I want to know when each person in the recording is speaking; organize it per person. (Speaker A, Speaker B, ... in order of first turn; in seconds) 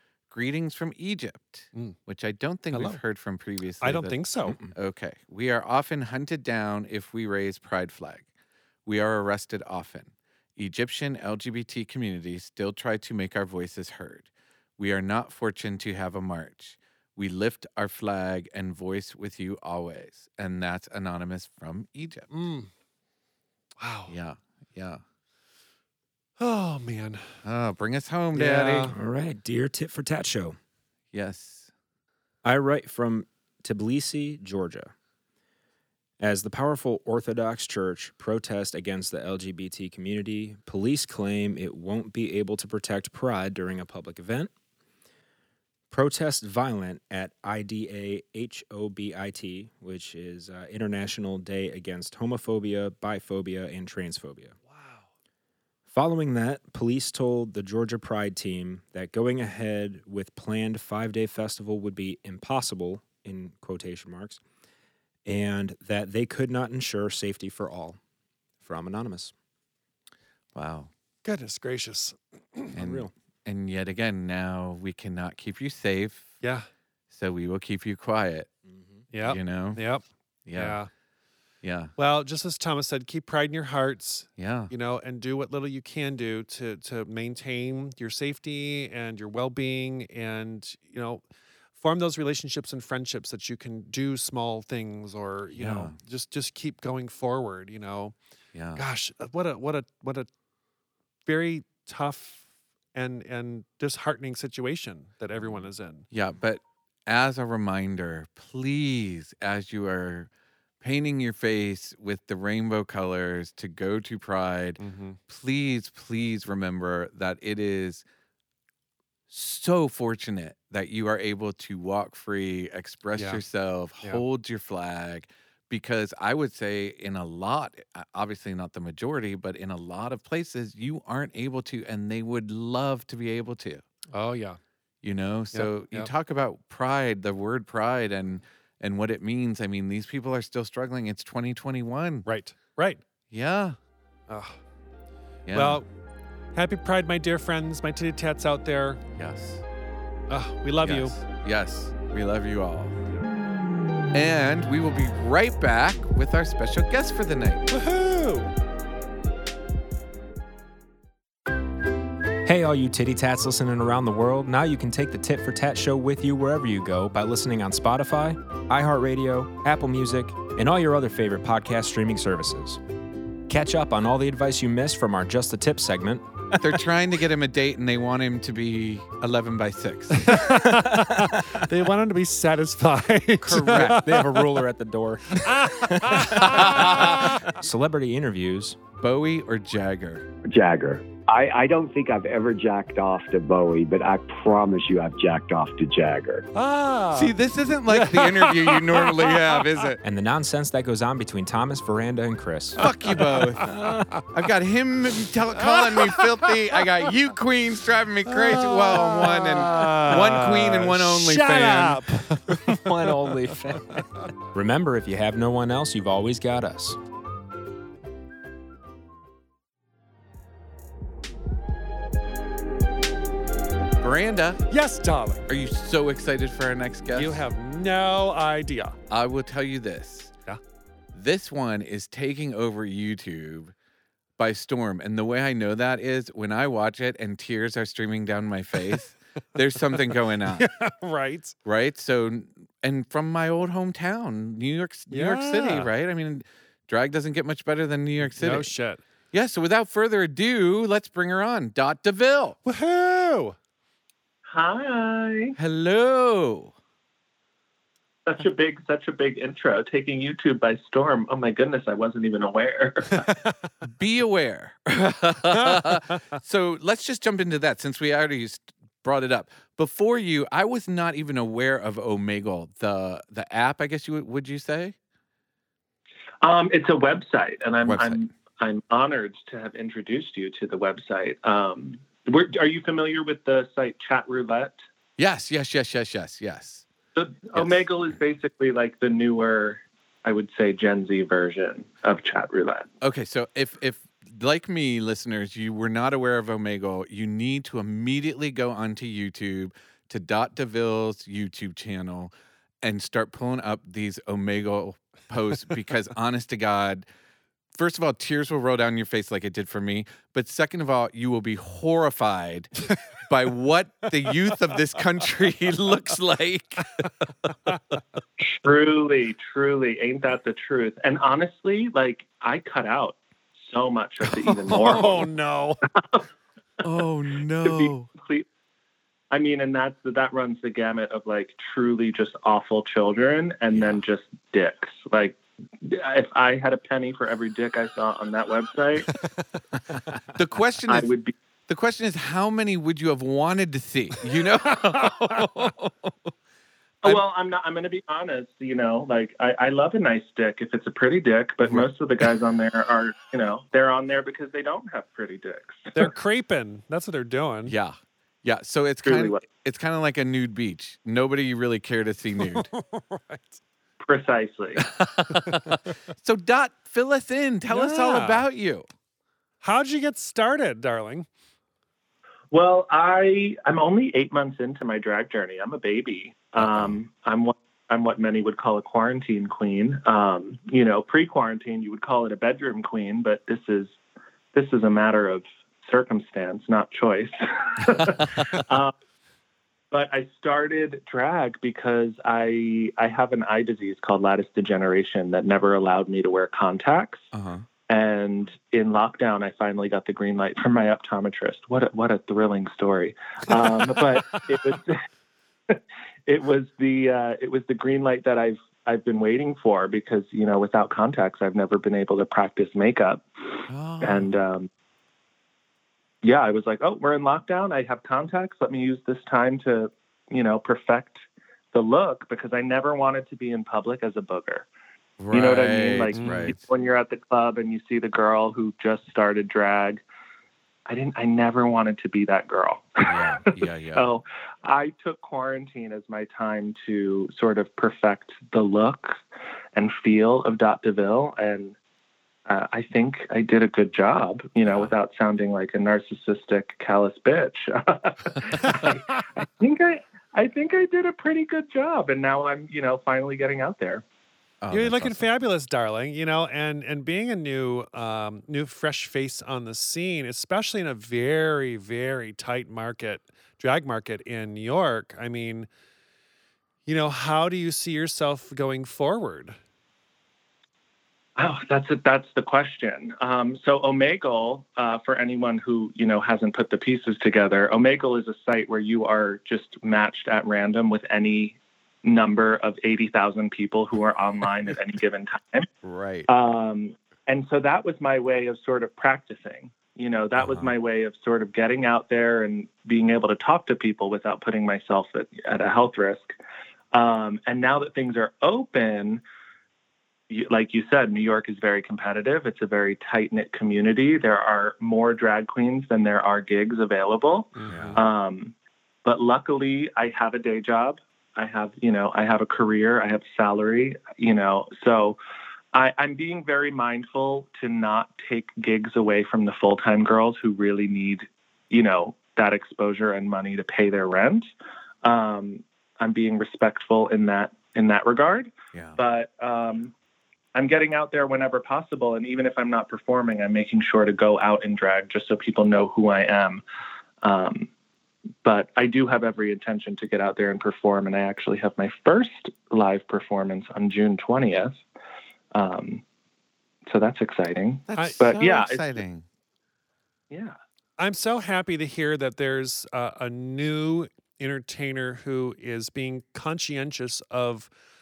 Speaker A: 0.3-8.2, 8.8-22.3, 24.1-25.0, 27.4-28.9, 31.1-31.7, 70.5-70.9, 72.7-76.3, 77.1-78.5, 79.2-79.8, 80.5-80.8, 81.6-81.9, 84.4-84.7, 95.5-95.9, 98.5-98.8, 105.4-110.3, 110.8-118.0, 119.3-133.8, 135.0-142.2, 143.3-143.8, 145.4-145.8, 149.2-149.6, 150.8-153.0, 154.1-157.7, 176.6-180.5, 183.4-184.0, 186.4-187.3, 189.0-190.2, 197.1-200.0, 202.8-203.8, 204.3-212.0, 224.0-224.7, 225.5-227.4, 229.1-230.3, 231.1-233.7, 234.4-240.7, 241.7-248.7, 249.3-252.6, 255.6-256.7, 263.8-274.9, 277.8-278.2, 285.2-286.8, 287.5-287.9, 293.0-307.0, 307.7-317.0, 326.8-328.1, 333.7-334.0, 340.3-341.1, 341.7-346.1, 357.6-362.7, 364.9-368.9, 376.6-376.9, 397.3-397.6, 413.7-414.3, 425.2-426.6, 433.0-434.1, 444.6-444.9, 454.6-455.2, 485.8-486.3, 490.4-490.7, 507.7-508.0, 547.9-549.2
Speaker B: 2.7-3.0, 3.8-4.6, 22.3-22.7, 23.8-24.1, 26.4-27.3, 28.3-28.9, 54.7-55.0, 71.2-72.7, 76.4-76.7, 79.1-80.9, 82.0-91.2, 91.8-98.2, 98.8-100.3, 101.2-102.4, 102.9-106.1, 114.8-115.2, 123.2-123.4, 134.1-134.6, 135.5-136.1, 142.2-143.0, 144.3-144.6, 145.5-145.9, 146.5-149.0, 150.3-151.1, 157.7-158.5, 180.1-184.3, 185.3-187.6, 196.5-197.3, 197.9-199.7, 202.8-204.2, 205.6-206.5, 208.3-214.2, 224.7-225.5, 227.1-229.0, 240.5-241.5, 245.1-245.9, 248.3-249.0, 252.6-253.6, 263.3-263.5, 265.6-266.2, 324.3-325.8, 344.6-345.7, 355.9-357.7, 362.4-363.6, 365.3-365.8, 367.7-368.4, 369.6-371.3, 426.1-426.5, 454.7-465.7, 466.9-469.6, 507.5-508.0, 547.9-548.2, 551.0-557.7
Speaker C: 28.9-30.6, 32.4-34.9, 36.2-44.5, 45.9-54.5, 55.9-64.4, 65.2-68.0, 68.6-69.3, 72.7-73.1, 162.4-172.8, 173.5-176.3, 180.9-181.2, 183.5-188.8, 200.0-202.8, 203.7-204.1, 212.6-217.0
Speaker D: 190.5-196.5
Speaker E: 254.5-255.6, 258.2-263.3, 276.4-284.8, 287.1-292.9, 318.4-325.3, 325.9-326.2, 327.6-328.4, 329.3-339.1, 340.9-341.3, 347.0-356.1, 359.0-359.4, 364.0-364.8, 372.5-384.0, 384.5-388.9, 389.9-397.3, 397.9-405.0, 405.7-414.7, 416.2-424.7, 425.3-430.0, 430.9-433.4, 433.9-439.2, 439.7-441.7, 442.5-454.0, 471.4-485.7, 486.3-496.3, 496.9-499.2, 500.3-508.5, 509.0-515.2, 515.7-524.5, 525.0-529.9, 530.5-536.6, 537.2-537.7, 538.4-544.8, 545.5-546.0, 546.9-549.0, 550.3-550.5